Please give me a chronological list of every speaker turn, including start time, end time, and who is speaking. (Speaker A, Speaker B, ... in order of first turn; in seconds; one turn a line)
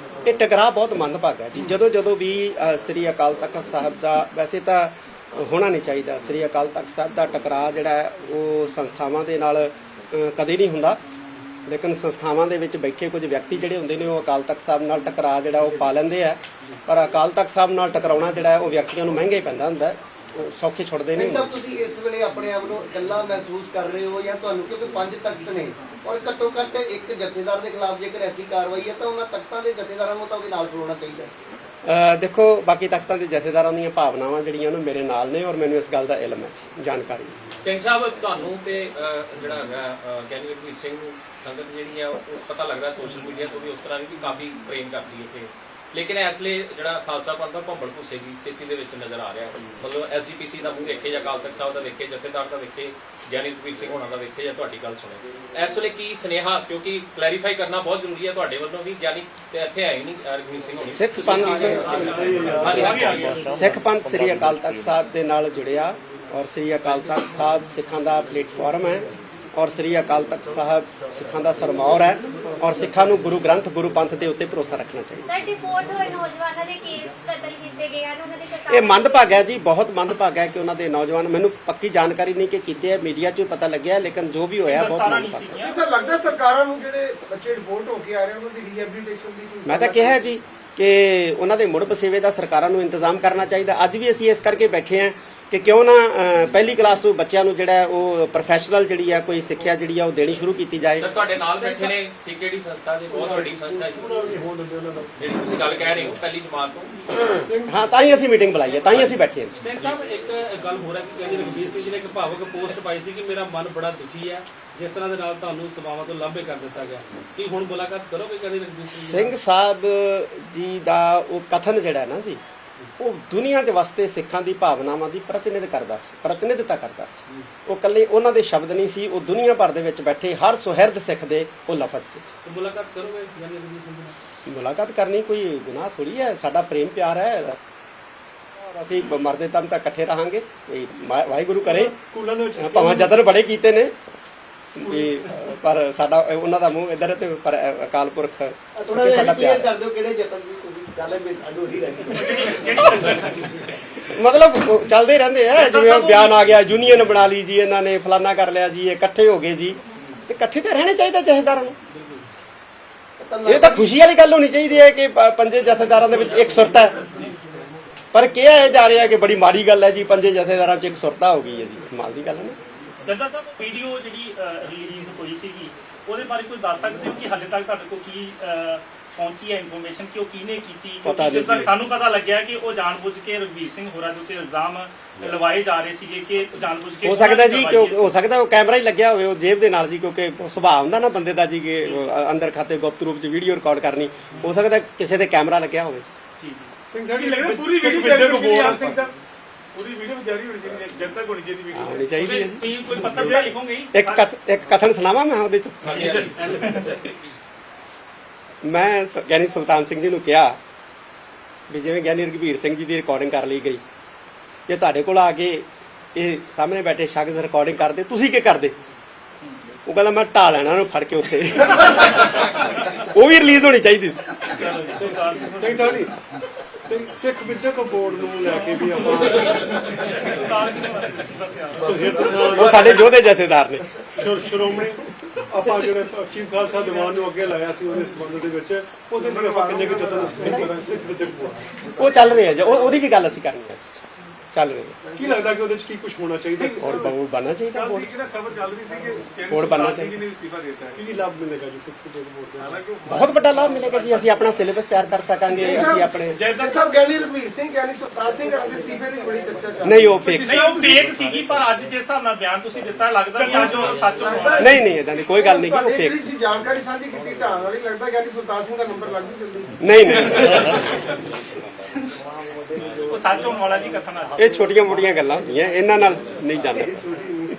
Speaker A: 0.2-11.0
Speaker A: 11.7-21.5
Speaker B: 21.1-31.3
Speaker A: 31.8-37.3
Speaker C: 37.6-63.6
Speaker A: 60.8-62.0
Speaker D: 61.2-63.3
Speaker E: 61.8-63.0
Speaker F: 62.7-63.5
Speaker A: 63.5-75.3
Speaker G: 75.2-79.4
Speaker A: 78.7-85.5
Speaker F: 84.7-85.8
Speaker H: 85.6-90.2
Speaker A: 89.6-101.0
Speaker C: 101.0-104.0
Speaker E: 103.1-105.1
Speaker C: 105.2-106.9
Speaker E: 107.2-107.9
Speaker A: 107.7-109.6
Speaker D: 109.6-119.3
Speaker A: 118.9-122.4
Speaker A: 123.0-132.3
Speaker D: 132.4-134.2
Speaker A: 134.4-137.6
Speaker A: 138.5-141.9
Speaker E: 141.5-143.2
Speaker A: 142.6-143.9
Speaker A: 144.7-149.7
Speaker E: 144.7-145.2
Speaker B: 148.8-152.6
Speaker F: 152.2-153.4
Speaker A: 154.0-161.8
Speaker F: 155.5-156.3
Speaker D: 161.9-162.2
Speaker B: 163.2-164.0
Speaker A: 163.4-166.9
Speaker A: 168.1-172.6
Speaker F: 173.1-188.0
Speaker A: 181.0-181.7
Speaker A: 187.0-196.1
Speaker F: 191.8-192.1
Speaker F: 196.4-196.7
Speaker E: 196.9-199.0
Speaker I: 197.1-199.1
Speaker I: 199.7-202.5
Speaker A: 201.7-206.2
Speaker F: 202.2-204.2
Speaker I: 203.0-203.5
Speaker C: 205.8-206.8
Speaker F: 205.9-206.9
Speaker D: 206.5-206.8
Speaker A: 208.6-210.6
Speaker A: 211.7-213.8
Speaker A: 214.7-218.8
Speaker A: 219.8-224.3
Speaker F: 224.6-225.9
Speaker E: 224.9-226.1
Speaker E: 226.8-230.0
Speaker F: 228.8-232.9
Speaker E: 231.8-233.2
Speaker A: 232.5-233.9
Speaker E: 234.2-241.7
Speaker F: 236.8-237.2
Speaker H: 239.2-240.8
Speaker A: 242.0-245.0
Speaker E: 245.2-247.1
Speaker I: 246.5-247.1
Speaker A: 246.7-248.1
Speaker I: 247.7-251.0
Speaker A: 249.5-250.2
Speaker E: 250.9-253.2
Speaker I: 252.6-254.3
Speaker A: 253.1-256.4
Speaker H: 255.5-260.2
Speaker F: 256.3-256.9
Speaker A: 259.8-260.7
Speaker I: 260.1-261.2
Speaker F: 260.4-264.8
Speaker I: 263.4-264.1
Speaker H: 263.4-269.8
Speaker A: 264.6-266.3
Speaker A: 269.8-271.0
Speaker F: 273.1-274.4
Speaker A: 274.4-277.1